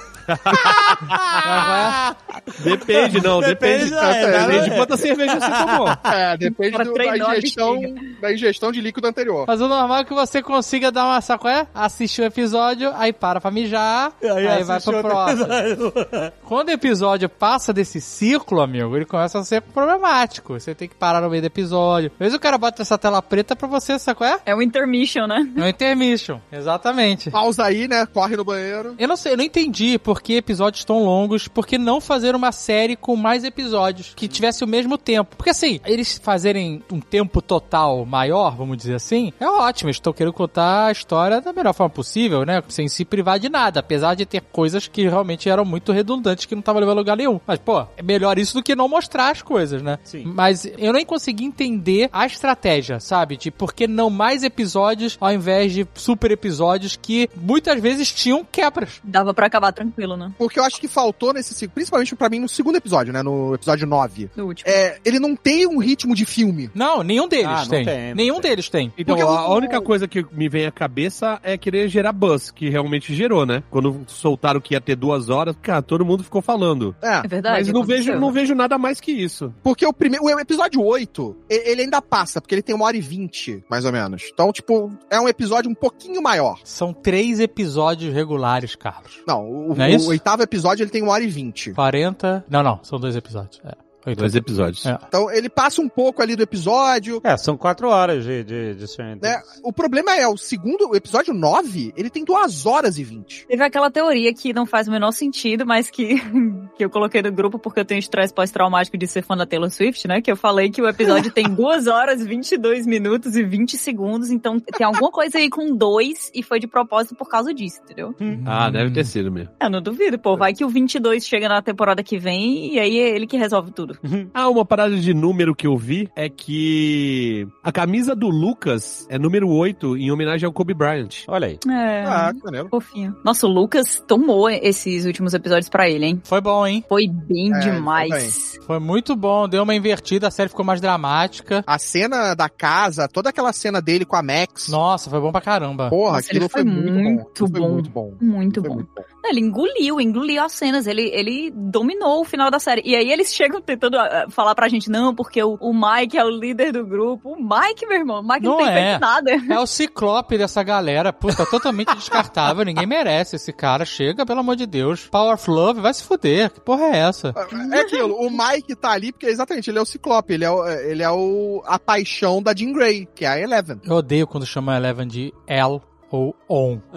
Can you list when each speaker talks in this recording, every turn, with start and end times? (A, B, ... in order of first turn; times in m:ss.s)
0:00.3-0:01.2 A
0:00.5-0:06.0 B
0:01.4-0:02.0 C
0:02.6-0:06.0 A
0:03.8-0:04.8 D
0:06.0-0:09.5 D
0:06.6-0:08.0 E
0:09.5-0:15.5 C
0:14.2-0:16.3 B
0:16.4-0:24.4 C
0:24.4-0:25.6 E
0:25.6-0:27.4 C
0:27.3-0:29.0 D
0:29.0-0:59.0 C
0:59.0-1:00.4 E
1:00.4-1:06.7 D
1:04.4-1:04.8 E
1:06.7-1:09.0 C
1:07.4-1:08.5 B
1:09.0-1:19.6 A
1:09.0-1:09.9 D
1:17.0-1:17.3 D
1:17.2-1:18.3 E
1:19.6-1:26.6 D
1:26.7-1:30.2 C
1:29.2-1:31.8 D
1:31.7-1:35.0 C
1:34.2-1:34.9 A
1:35.1-1:37.2 D
1:37.2-1:39.4 B
1:39.2-1:43.4 D
1:43.5-1:58.2 E
1:58.3-1:59.1 C
1:58.4-1:59.5 A
1:59.6-2:04.0 E
2:04.0-2:04.3 B
2:04.3-2:11.3 A
2:11.3-2:11.6 B
2:11.6-2:16.2 E
2:12.0-2:12.7 D
2:16.3-2:16.8 C
2:16.9-2:18.6 E
2:17.5-2:18.3 D
2:18.6-2:21.6 C
2:21.7-2:24.7 D
2:24.7-2:26.0 C
2:25.9-2:29.0 D
2:26.1-2:39.6 E
2:38.4-2:47.4 C
2:47.3-2:53.8 D
2:47.5-2:48.1 E
2:53.8-2:56.8 C